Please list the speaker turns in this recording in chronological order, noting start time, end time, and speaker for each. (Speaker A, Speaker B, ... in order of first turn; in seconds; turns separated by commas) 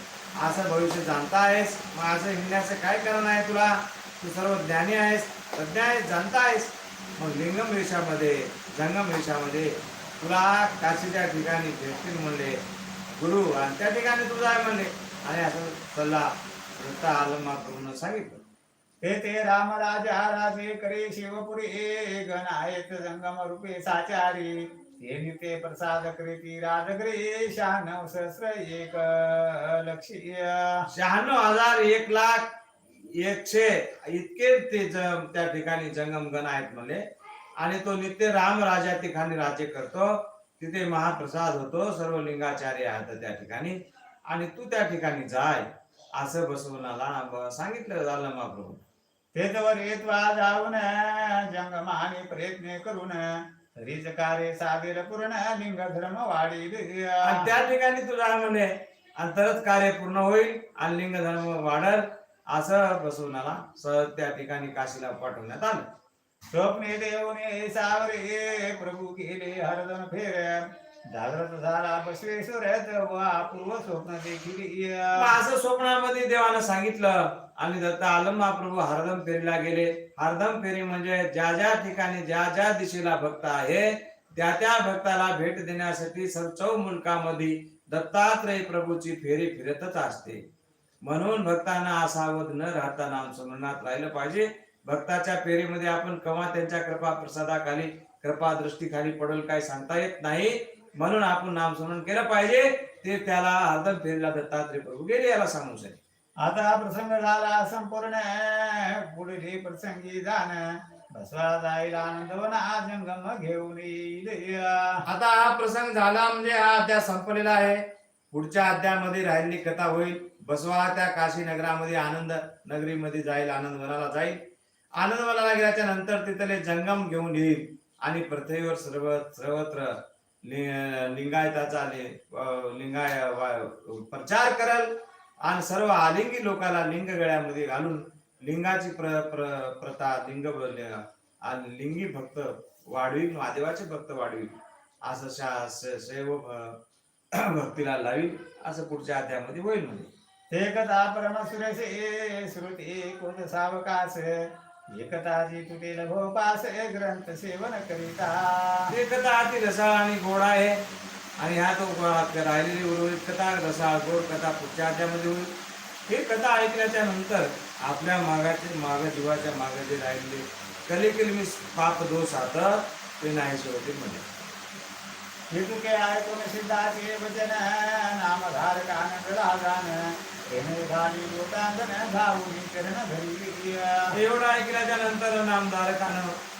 Speaker A: 0.4-12.6, Speaker A: 13.2-18.4, Speaker B: 19.0-30.9, Speaker A: 30.9-37.0, Speaker A: 37.6-43.8, Speaker A: 44.3-48.8, Speaker B: 49.3-57.5, Speaker A: 57.2-65.8, Speaker B: 66.5-75.3, Speaker A: 75.2-90.4, Speaker A: 91.0-106.0, Speaker B: 106.4-115.0, Speaker A: 115.0-124.4, Speaker A: 125.0-134.9, Speaker A: 135.4-146.8, Speaker A: 147.3-150.1, Speaker B: 150.5-158.9, Speaker A: 158.9-160.8, Speaker A: 161.4-165.5, Speaker A: 166.1-174.2, Speaker B: 175.5-184.1, Speaker A: 184.1-186.3